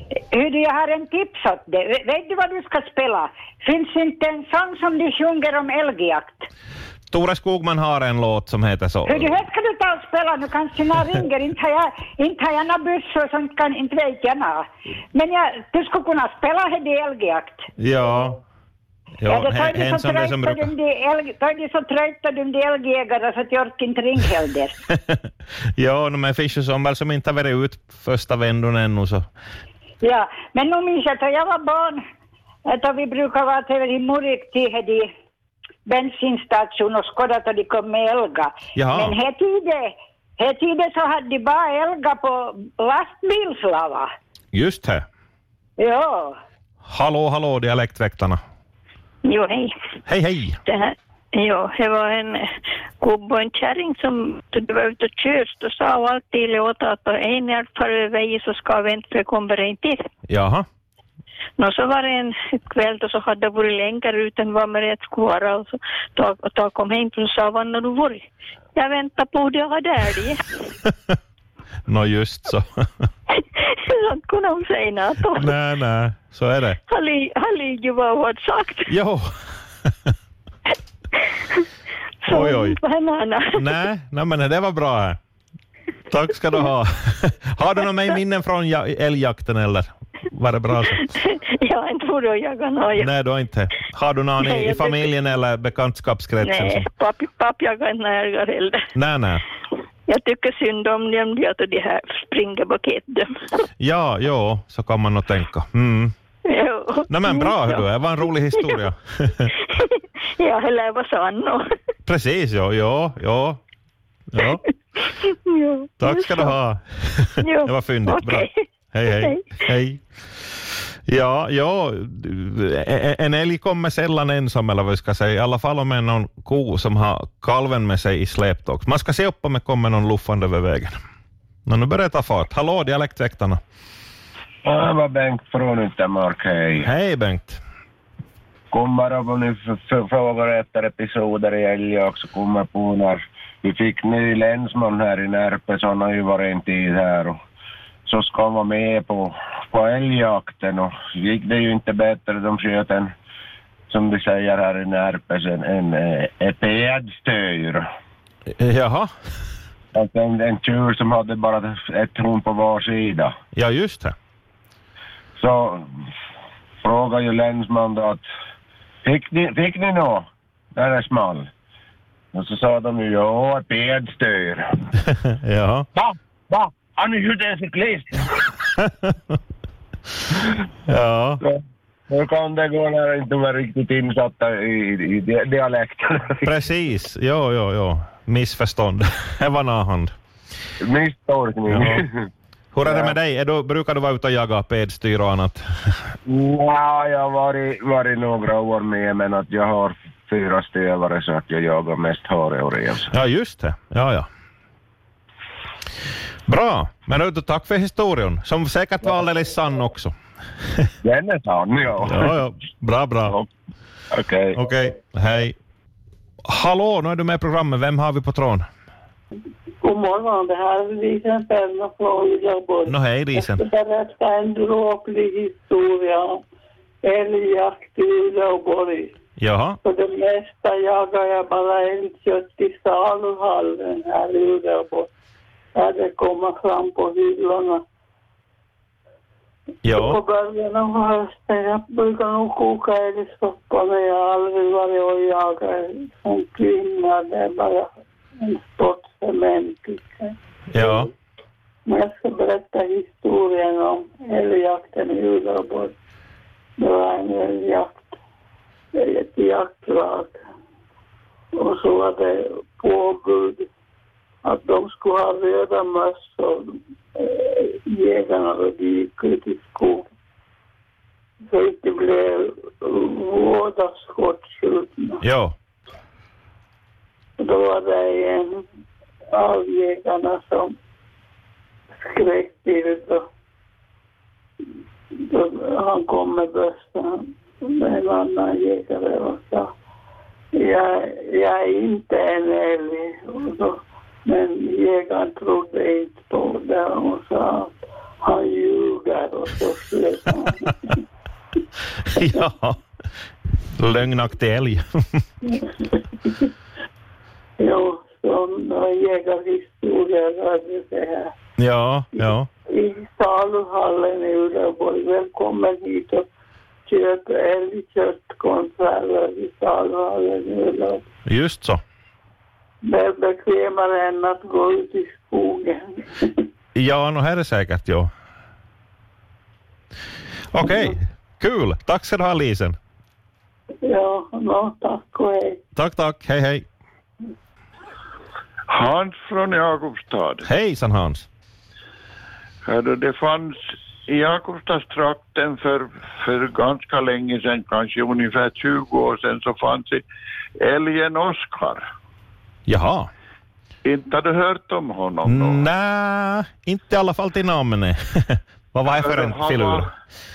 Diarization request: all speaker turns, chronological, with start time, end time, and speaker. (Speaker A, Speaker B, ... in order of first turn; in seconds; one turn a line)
Speaker A: 0.3-6.5
Speaker B: 7.1-9.3
Speaker A: 9.1-17.7
Speaker B: 17.8-18.4
Speaker B: 19.2-20.7
Speaker A: 19.3-24.7
Speaker B: 25.8-29.2
Speaker A: 30.0-32.0
Speaker A: 32.7-35.1
Speaker A: 35.9-44.1
Speaker B: 38.7-39.2
Speaker B: 44.5-45.0
Speaker A: 45.8-46.4
Speaker B: 46.9-48.4
Speaker C: 49.3-49.7
Speaker B: 50.1-50.6
Speaker C: 50.6-52.4
Speaker C: 53.0-59.9
Speaker B: 60.3-60.6
Speaker C: 61.6-68.2
Speaker C: 68.8-70.3
Speaker B: 71.9-73.1
Speaker C: 74.0-75.4
Speaker B: 75.3-76.8
Speaker C: 76.9-78.8
Speaker B: 78.9-79.2
Speaker B: 79.8-80.1
Speaker B: 82.3-82.8
Speaker C: 82.3-83.5
Speaker B: 83.5-85.2
Speaker B: 86.1-91.0
Speaker C: 91.2-93.0
Speaker B: 92.9-96.8
Speaker C: 94.5-95.0
Speaker C: 96.5-98.8
Speaker B: 98.9-99.4
Speaker C: 100.1-103.3
Speaker B: 103.8-106.1
Speaker C: 106.5-107.8
Speaker B: 107.1-109.5
Speaker C: 110.4-111.6
Speaker B: 112.0-113.6
Speaker B: 114.3-114.6
Speaker C: 115.5-116.3
Speaker B: 116.0-120.0
Speaker C: 117.5-118.6
Speaker C: 119.2-119.4
Speaker B: 121.1-131.0
Speaker B: 131.7-133.6
Speaker D: 134.6-136.9
Speaker B: 136.8-137.6
Speaker D: 138.7-147.4
Speaker D: 148.1-153.1
Speaker D: 153.9-157.8
Speaker B: 158.6-159.1
Speaker D: 159.9-163.3
Speaker B: 163.5-164.1
Speaker D: 165.4-166.1
Speaker D: 166.8-168.2
Speaker D: 169.0-170.2
Speaker D: 170.7-171.5
Speaker D: 172.3-174.7
Speaker B: 175.3-175.8
Speaker D: 175.9-178.2
Speaker B: 180.9-181.4
Speaker D: 181.4-186.5
Speaker B: 186.4-190.1
Speaker D: 190.8-192.3
Speaker B: 191.7-192.0
Speaker B: 192.7-195.6
Speaker D: 192.8-193.2
Speaker D: 196.3-203.1
Speaker B: 203.1-204.3
Speaker B: 206.5-210.1
Speaker D: 211.0-212.3
Speaker B: 212.0-213.4
Speaker D: 214.1-214.6
Speaker B: 214.5-215.5
Speaker B: 216.5-218.6
Speaker E: 219.8-226.4
Speaker B: 222.8-223.7
Speaker E: 227.0-229.2
Speaker B: 229.4-229.8
Speaker E: 229.8-235.1
Speaker E: 235.7-237.8
Speaker B: 239.8-240.2
Speaker E: 239.9-247.9
Speaker E: 248.4-250.3
Speaker B: 250.7-251.1
Speaker E: 251.8-255.9
Speaker E: 256.8-258.2
Speaker E: 258.9-260.4
Speaker E: 261.6-263.7
Speaker E: 264.4-270.1
Speaker E: 271.5-275.2
Speaker B: 275.2-275.5
Speaker E: 277.4-278.6
Speaker E: 279.3-280.8
Speaker E: 282.1-283.3
Speaker E: 285.3-289.7
Speaker E: 290.6-300.7
Speaker B: 302.1-302.8
Speaker B: 303.8-305.2
Speaker E: 307.6-311.3
Speaker B: 311.6-312.5
Speaker E: 312.2-316.3
Speaker E: 316.9-321.0
Speaker B: 321.2-321.8
Speaker E: 322.8-326.3
Speaker B: 326.7-328.1
Speaker B: 330.5-332.8
Speaker E: 333.8-335.6
Speaker B: 335.7-336.6
Speaker F: 338.7-340.5
Speaker B: 340.4-341.3
Speaker F: 342.6-350.0
Speaker F: 350.6-351.8
Speaker B: 352.7-353.1
Speaker F: 353.8-355.7
Speaker B: 355.2-359.9
Speaker F: 358.9-359.8